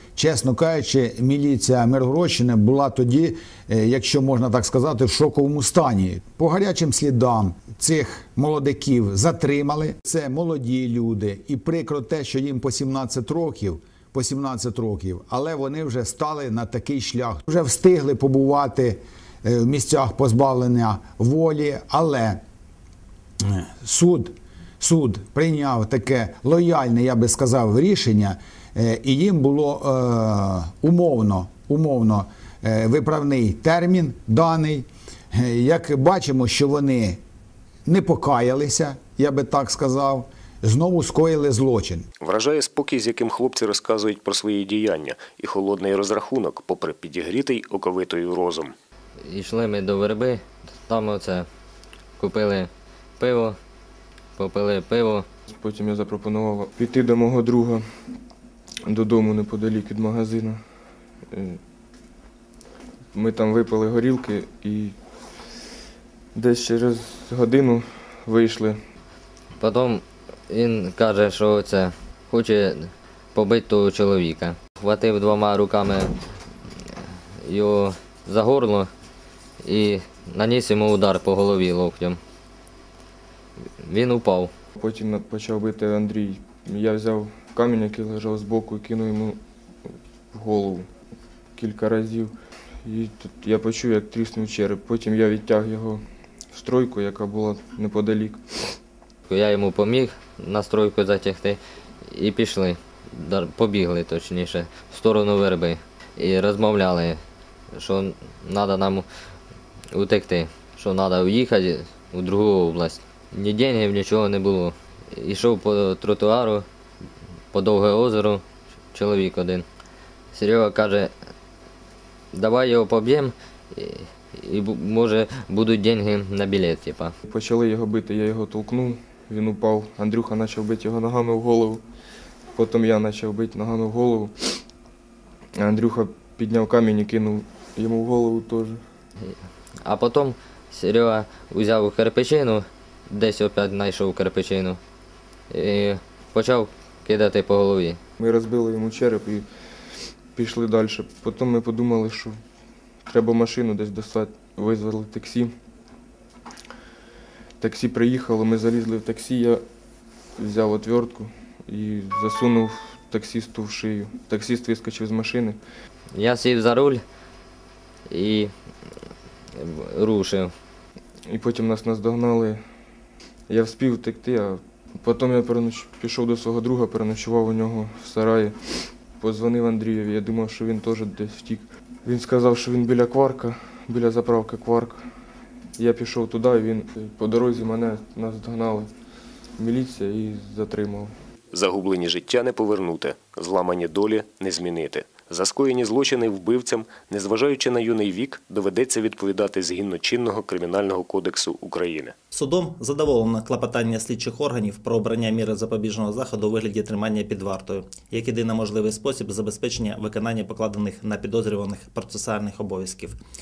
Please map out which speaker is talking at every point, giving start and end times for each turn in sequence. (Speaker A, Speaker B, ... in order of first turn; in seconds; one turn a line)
Speaker A: 0.2-22.4
Speaker A: 23.4-37.2
Speaker A: 37.9-42.0
Speaker B: 42.2-48.7
Speaker C: 49.3-51.5
Speaker C: 52.2-53.6
Speaker C: 54.4-55.3
Speaker D: 55.5-57.9
Speaker D: 58.9-60.6
Speaker D: 61.3-61.6
Speaker D: 63.1-65.0
Speaker D: 66.3-68.8
Speaker C: 69.6-76.1
Speaker C: 77.5-78.9
Speaker C: 79.6-82.2
Speaker C: 83.8-84.5
Speaker D: 84.8-89.4
Speaker D: 90.3-90.9
Speaker D: 91.6-92.3
Speaker D: 92.8-98.4
Speaker C: 99.3-101.6
Speaker C: 102.1-107.2
Speaker C: 107.8-109.1
Speaker C: 109.9-116.7
Speaker C: 117.5-118.4
Speaker C: 118.9-119.7
Speaker C: 120.3-121.1
Speaker C: 122.3-127.1
Speaker D: 127.3-131.8
Speaker D: 132.5-134.3
Speaker D: 135.6-138.8
Speaker C: 139.8-144.8
Speaker C: 145.5-148.0
Speaker D: 148.2-149.5
Speaker D: 150.3-152.4
Speaker D: 153.1-155.5
Speaker D: 157.6-159.6
Speaker D: 160.4-165.6
Speaker C: 166.2-167.0
Speaker C: 168.1-168.5
Speaker C: 169.6-170.5
Speaker D: 171.3-172.6
Speaker D: 173.5-185.1
Speaker D: 185.8-188.9
Speaker D: 189.6-191.1
Speaker B: 191.5-202.2
Speaker E: 202.3-213.2